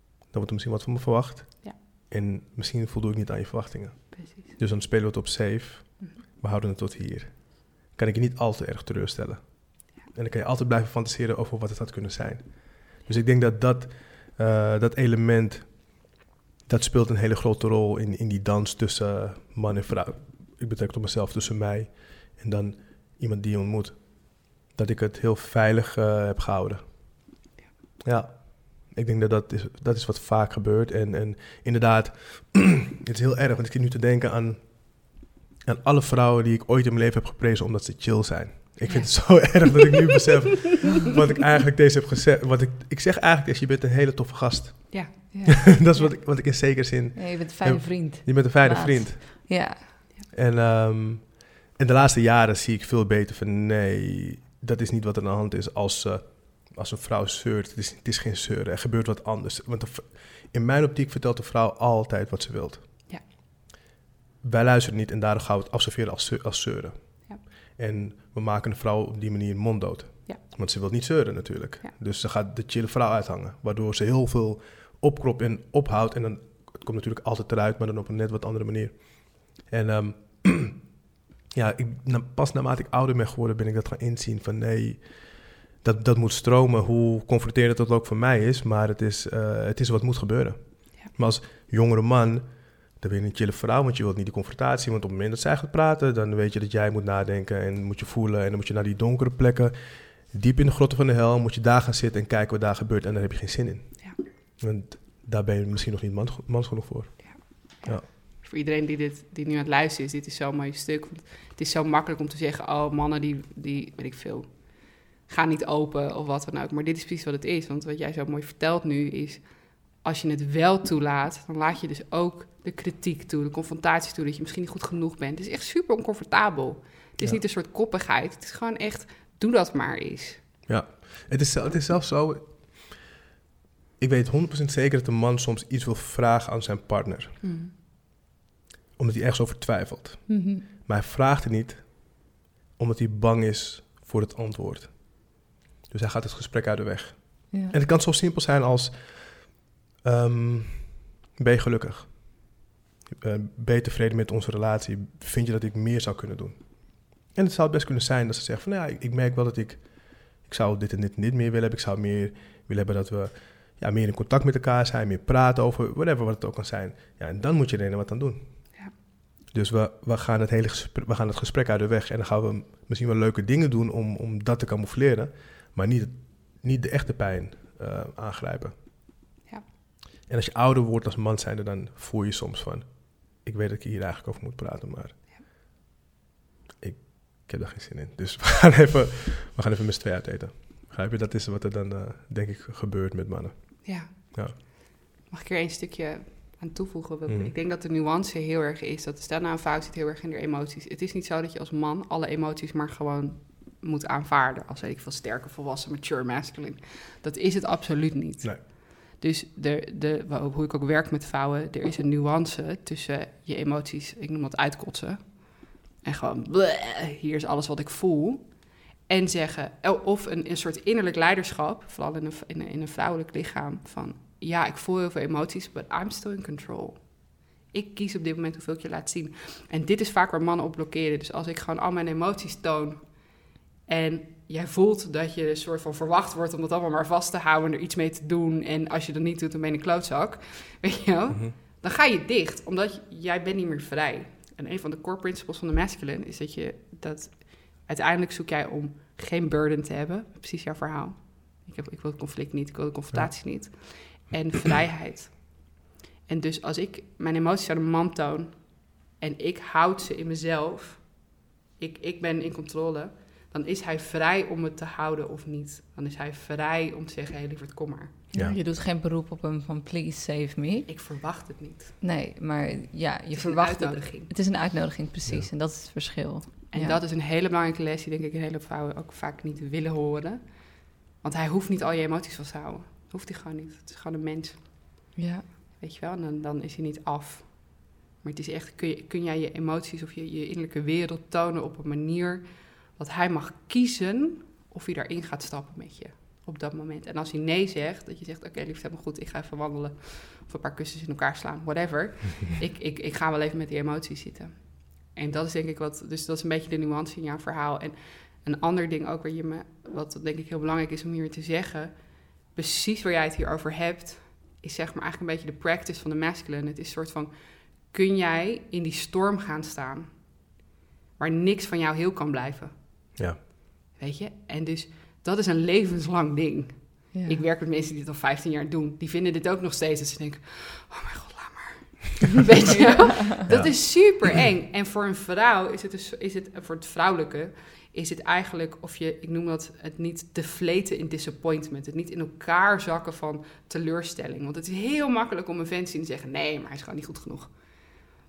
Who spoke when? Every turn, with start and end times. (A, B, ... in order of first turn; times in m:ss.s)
0:00.3-0:27.2 A
0:04.1-0:04.6 B
0:28.0-0:49.7 A
0:38.9-0:39.8 B
0:45.3-0:49.9 C
0:50.3-1:03.0 A
1:04.4-1:20.9 A
1:21.5-1:48.1 A
1:47.2-2:10.4 B
2:10.7-2:13.1 A
2:14.0-2:17.4 A
2:17.4-2:17.7 B
2:19.0-2:32.6 A
2:20.3-2:20.6 C
2:33.1-2:48.8 A
2:49.5-2:58.8 A
3:00.3-3:05.4 A
3:06.8-3:14.6 A
3:13.8-4:28.2 B
3:17.3-3:17.5 A
4:28.3-4:30.9 C
4:30.9-4:32.0 B
4:32.0-4:37.0 C
4:33.4-4:34.3 B
4:36.7-4:44.8 B
4:45.2-4:45.5 C
4:45.8-5:20.4 B
5:21.2-5:48.0 B
5:27.1-5:27.4 C
5:32.7-5:33.0 C
5:33.5-5:34.1 A